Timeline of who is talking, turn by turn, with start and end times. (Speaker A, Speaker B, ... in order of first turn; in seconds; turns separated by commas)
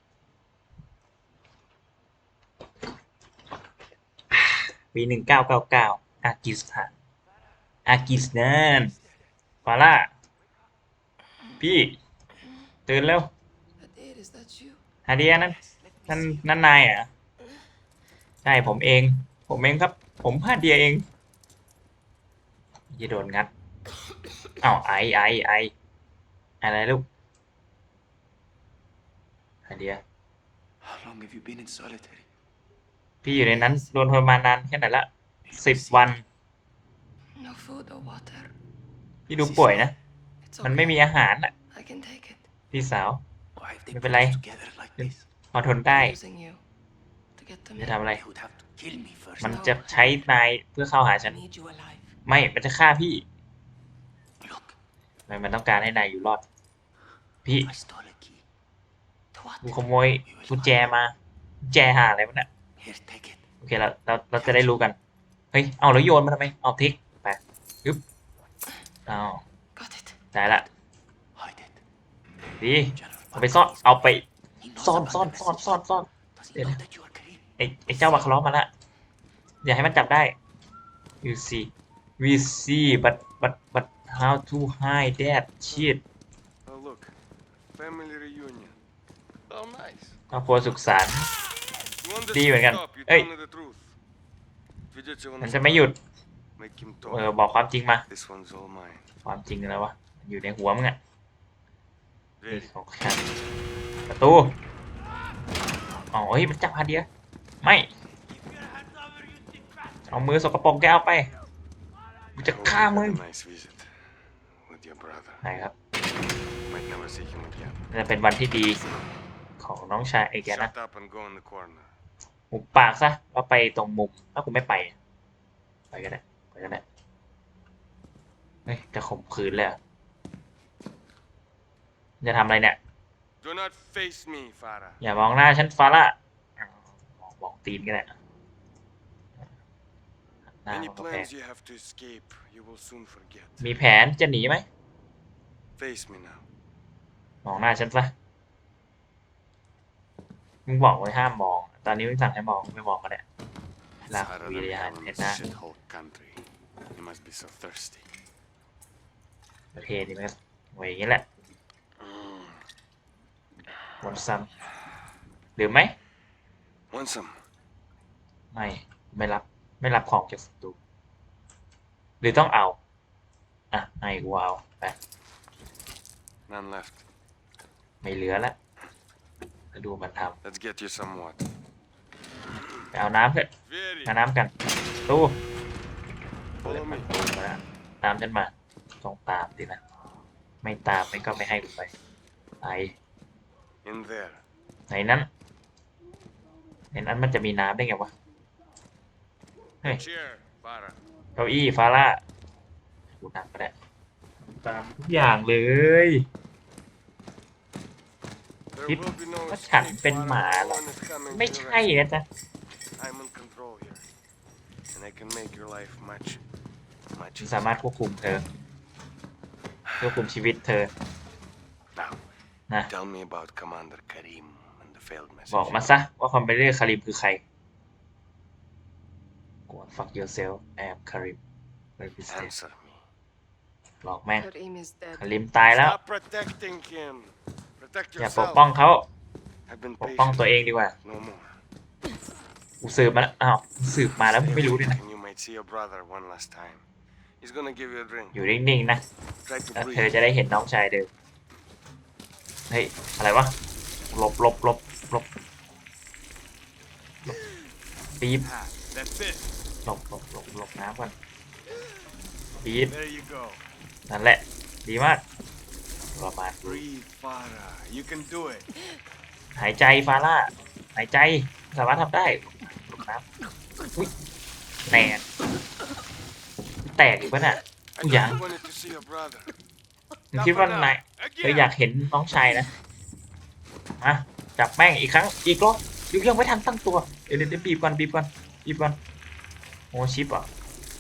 Speaker A: 4.3-6.9, Speaker A: 7.9-8.9, Speaker A: 9.7-10.1, Speaker A: 11.6-12.0, Speaker A: 12.9-13.3, Speaker B: 13.8-14.8, Speaker A: 15.1-17.1, Speaker B: 15.6-16.1, Speaker A: 18.4-21.1, Speaker A: 22.9-23.5, Speaker A: 24.6-25.7, Speaker A: 26.6-27.1, Speaker A: 29.7-30.0, Speaker C: 31.1-32.2, Speaker A: 33.2-36.2, Speaker B: 33.3-33.9, Speaker B: 37.4-38.5, Speaker A: 39.3-40.0, Speaker B: 40.5-41.1, Speaker A: 40.6-41.5, Speaker B: 41.7-42.5, Speaker A: 42.7-43.2, Speaker A: 43.9-44.4, Speaker C: 44.4-45.0, Speaker A: 45.0-46.2, Speaker B: 45.9-46.6, Speaker B: 47.4-48.0, Speaker A: 47.8-48.2, Speaker C: 48.3-49.4, Speaker A: 49.4-51.4, Speaker B: 49.4-50.2, Speaker B: 51.2-52.1, Speaker A: 52.3-53.2, Speaker A: 55.3-56.4, Speaker A: 57.5-57.7, Speaker C: 57.7-58.1, Speaker B: 59.3-59.7, Speaker A: 59.6-62.5, Speaker A: 63.6-65.0, Speaker A: 65.5-68.0, Speaker A: 69.1-69.4, Speaker B: 69.8-70.2, Speaker A: 70.3-70.7, Speaker A: 72.6-76.8, Speaker C: 76.4-77.4, Speaker A: 77.6-78.7, Speaker A: 79.6-80.3, Speaker A: 81.2-86.0, Speaker D: 86.7-87.1, Speaker D: 87.7-88.8, Speaker D: 89.5-90.2, Speaker A: 90.3-91.3, Speaker D: 92.0-94.0, Speaker A: 92.3-93.3, Speaker D: 94.9-95.9, Speaker A: 95.4-96.0, Speaker D: 96.6-97.3, Speaker A: 97.1-98.1, Speaker D: 98.1-99.1, Speaker A: 99.2-101.0, Speaker D: 102.4-102.7, Speaker A: 102.5-103.3, Speaker A: 104.1-104.6, Speaker A: 106.1-107.1, Speaker A: 107.6-107.9, Speaker A: 110.1-111.3, Speaker A: 112.4-113.2, Speaker D: 112.4-113.9, Speaker D: 114.6-115.4, Speaker A: 115.4-115.7, Speaker D: 116.7-117.8, Speaker A: 117.9-118.8, Speaker B: 118.7-119.2, Speaker A: 119.6-120.7, Speaker D: 120.5-121.9, Speaker A: 122.5-125.0, Speaker A: 125.9-126.8, Speaker A: 128.7-129.8, Speaker A: 132.2-132.8, Speaker D: 133.4-135.0, Speaker A: 135.0-138.2, Speaker A: 140.6-141.3, Speaker D: 140.7-143.7, Speaker A: 143.6-144.7, Speaker D: 145.8-146.4, Speaker A: 147.4-148.1, Speaker A: 150.7-153.2, Speaker A: 154.0-155.4, Speaker D: 154.1-158.1, Speaker A: 159.7-161.3, Speaker D: 162.0-162.6, Speaker A: 164.0-164.5, Speaker A: 165.6-165.9, Speaker D: 166.9-167.4, Speaker A: 168.5-170.8, Speaker A: 172.2-172.8, Speaker A: 173.7-175.0, Speaker D: 176.5-177.0, Speaker A: 178.0-178.6, Speaker A: 179.7-180.4, Speaker D: 180.4-181.4, Speaker A: 182.9-183.5, Speaker D: 183.7-184.1, Speaker A: 184.1-184.5, Speaker A: 185.1-185.4, Speaker D: 186.6-187.1, Speaker A: 186.6-189.8, Speaker A: 190.6-191.9, Speaker A: 192.6-192.9, Speaker D: 193.8-194.4, Speaker A: 194.9-195.3, Speaker A: 196.9-198.1, Speaker D: 199.8-201.0, Speaker A: 201.4-202.2, Speaker A: 203.2-203.7, Speaker A: 204.4-206.3, Speaker D: 208.7-211.9, Speaker A: 208.9-212.2, Speaker D: 213.0-214.0, Speaker D: 214.9-216.4, Speaker D: 217.1-217.7, Speaker A: 217.4-218.5, Speaker D: 219.9-220.3, Speaker A: 220.0-220.9, Speaker D: 222.9-225.9, Speaker A: 225.5-227.4, Speaker A: 229.7-231.4, Speaker A: 232.0-232.5, Speaker D: 232.3-233.1, Speaker A: 234.0-234.5, Speaker B: 234.4-235.2, Speaker A: 235.1-236.0, Speaker D: 235.7-238.7, Speaker A: 238.2-239.1, Speaker D: 239.7-240.5, Speaker A: 240.0-240.9, Speaker D: 241.0-241.6, Speaker A: 242.8-245.0, Speaker D: 244.1-246.8, Speaker D: 247.4-248.4, Speaker A: 248.3-249.0, Speaker D: 249.4-250.1, Speaker A: 249.8-251.1, Speaker A: 252.7-253.6, Speaker A: 254.1-255.3, Speaker A: 258.2-258.5, Speaker D: 258.4-259.5, Speaker A: 259.9-261.1, Speaker A: 262.6-263.0, Speaker D: 262.9-263.6, Speaker A: 264.1-265.2, Speaker A: 266.1-266.9, Speaker D: 266.6-268.7, Speaker A: 269.6-273.3, Speaker A: 274.9-275.2, Speaker A: 276.8-278.4, Speaker D: 278.0-279.5, Speaker D: 280.3-281.7, Speaker A: 280.3-282.7, Speaker A: 284.0-289.0, Speaker A: 289.9-290.5